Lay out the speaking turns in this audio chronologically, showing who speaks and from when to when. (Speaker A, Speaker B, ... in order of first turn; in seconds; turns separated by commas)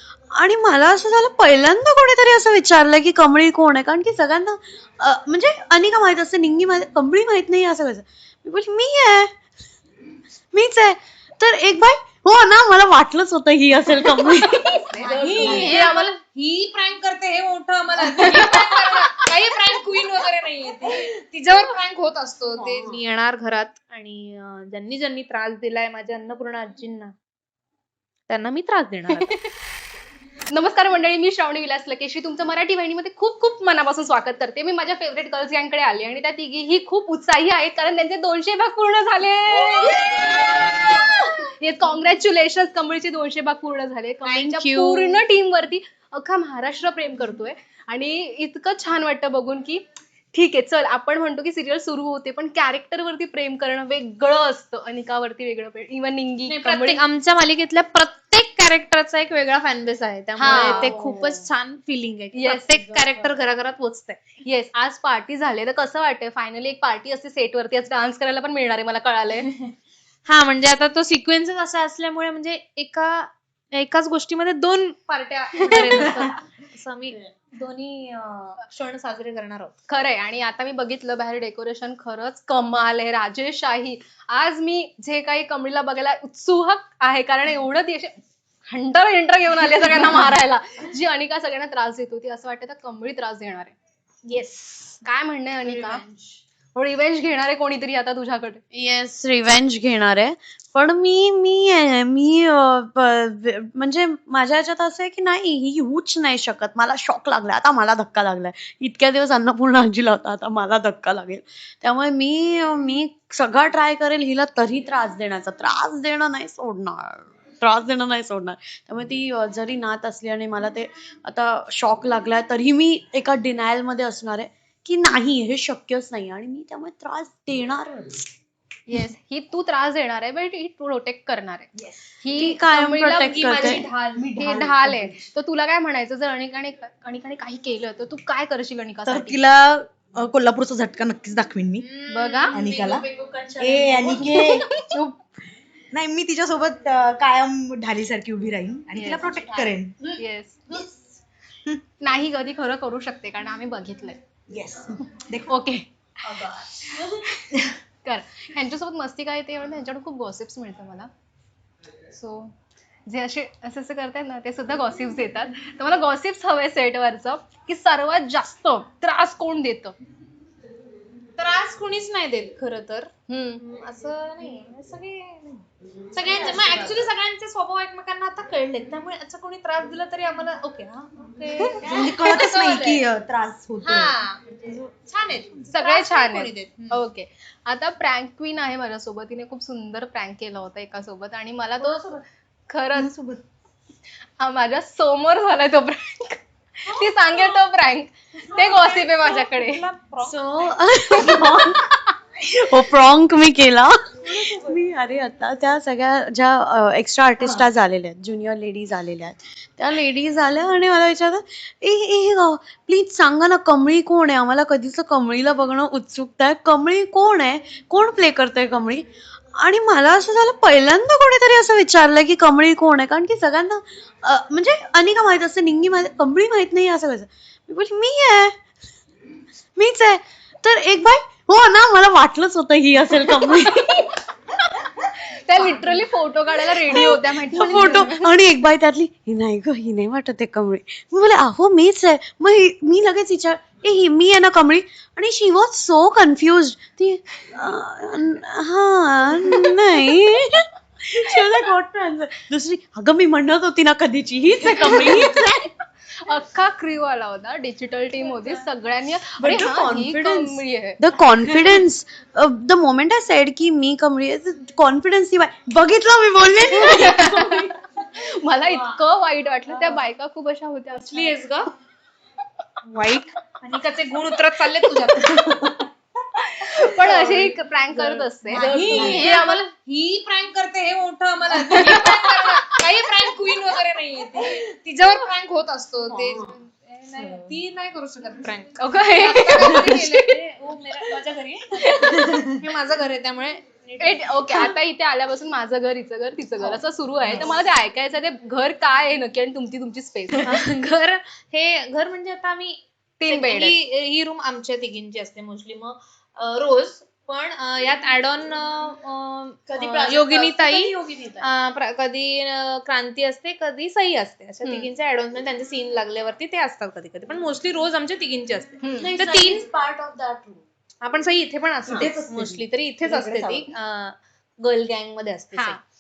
Speaker A: 0.3-9.3, Speaker A: 10.5-15.9, Speaker B: 14.2-16.1, Speaker C: 15.0-27.1, Speaker B: 18.1-19.3, Speaker A: 22.6-23.0, Speaker C: 28.3-29.3, Speaker B: 29.1-29.5, Speaker B: 30.5-49.8, Speaker C: 44.2-45.2, Speaker B: 50.3-57.0, Speaker C: 56.5-64.2, Speaker B: 60.4-61.2, Speaker A: 60.5-60.9, Speaker B: 62.3-63.4, Speaker B: 64.4-69.5, Speaker C: 70.3-79.7, Speaker B: 75.6-76.2, Speaker B: 79.9-93.8, Speaker C: 94.3-94.9, Speaker B: 94.5-96.0, Speaker C: 95.7-96.2, Speaker B: 96.8-98.6, Speaker A: 98.7-128.3, Speaker B: 128.9-131.7, Speaker D: 131.8-132.0, Speaker B: 132.2-133.8, Speaker A: 132.3-133.9, Speaker C: 133.1-134.3, Speaker D: 134.2-135.2, Speaker B: 134.4-139.4, Speaker D: 139.1-141.9, Speaker C: 141.8-144.2, Speaker B: 142.1-142.6, Speaker D: 142.5-143.1, Speaker D: 143.6-145.2, Speaker B: 144.2-144.9, Speaker D: 145.9-150.0, Speaker B: 148.9-150.6, Speaker B: 152.0-154.2, Speaker D: 154.5-155.5, Speaker B: 155.5-156.4, Speaker B: 156.9-161.1, Speaker B: 162.1-162.5, Speaker B: 163.1-170.0, Speaker C: 171.4-183.1, Speaker B: 173.3-173.6, Speaker B: 181.6-182.3, Speaker D: 181.8-184.9, Speaker C: 183.8-187.0, Speaker B: 185.7-193.2, Speaker D: 193.0-193.4, Speaker B: 194.4-199.8, Speaker C: 196.9-197.6, Speaker C: 198.5-200.4, Speaker A: 200.2-228.6, Speaker A: 229.8-234.1, Speaker B: 233.4-238.4, Speaker A: 236.9-255.5, Speaker B: 254.6-261.0, Speaker A: 259.4-267.6, Speaker D: 261.5-261.8, Speaker B: 266.7-271.4, Speaker C: 270.9-271.7, Speaker C: 272.8-275.7, Speaker B: 275.2-275.7, Speaker B: 276.4-279.6, Speaker C: 277.1-294.8, Speaker A: 278.5-279.3, Speaker B: 281.5-282.6, Speaker A: 286.1-286.5, Speaker B: 288.8-290.4, Speaker B: 291.8-292.6, Speaker B: 294.0-300.5, Speaker C: 300.4-319.7, Speaker B: 303.2-303.8, Speaker A: 309.7-311.5, Speaker B: 318.8-319.1, Speaker A: 319.0-320.6, Speaker C: 321.0-325.8, Speaker D: 321.9-323.4, Speaker A: 322.0-322.4